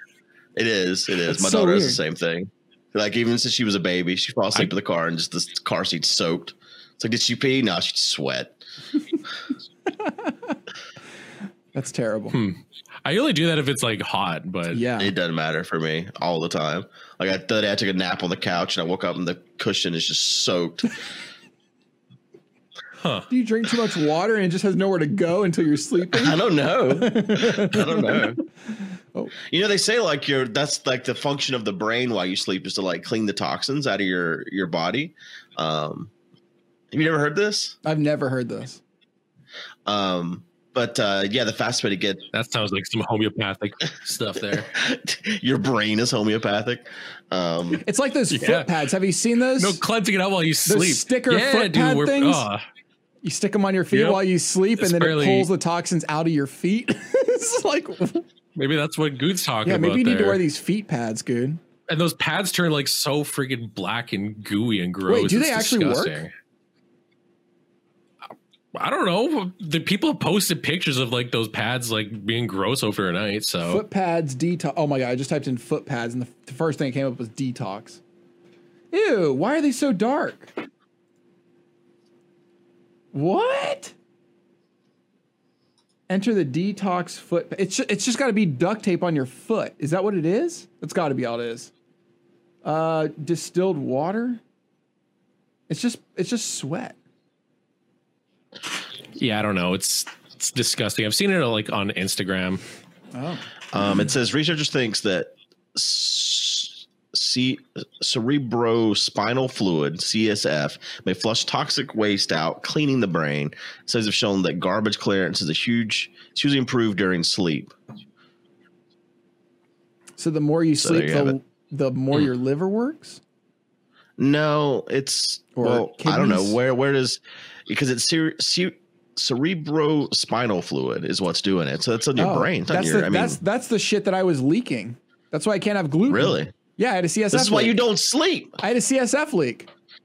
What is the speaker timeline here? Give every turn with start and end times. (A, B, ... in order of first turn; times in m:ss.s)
0:00.6-0:08.6 A
0:01.3-0:02.0 B
0:10.0-0:10.5 B
0:11.7-0:12.4 B
0:12.3-0:14.8 C
0:14.7-0:15.1 B
0:15.0-0:20.9 A
0:23.0-0:23.3 C
0:23.3-0:28.3 B
0:26.1-0:28.4 A
0:29.5-0:36.1 A
0:36.9-0:37.8 A
0:37.8-0:38.8 B
0:39.8-0:42.3 A
0:42.3-0:44.7 C
0:44.6-0:47.8 A
0:47.8-0:49.8 B
0:48.3-0:48.7 C
0:49.6-0:52.6 C
0:50.6-0:52.4 B
0:53.2-0:58.2 B
0:53.9-0:54.2 C
0:54.8-0:55.5 C
0:58.5-1:00.4 C
0:59.6-1:01.6 B
1:01.9-1:06.3 C
1:05.1-1:06.2 B
1:08.7-1:13.8 C
1:13.6-1:18.0 B
1:18.9-1:20.5 B
1:23.1-1:23.9 B
1:26.1-1:31.7 B
1:32.6-1:34.4 B
1:35.7-1:37.0 B
1:39.2-1:42.6 C
1:43.1-1:43.5 B
1:43.7-1:57.7 A
2:00.2-2:03.2 B
2:00.8-2:01.3 A
2:04.2-2:13.4 A
2:05.5-2:06.6 B
2:12.2-2:17.8 B
2:16.1-2:16.5 A
2:17.3-2:18.6 A
2:18.6-2:19.7 B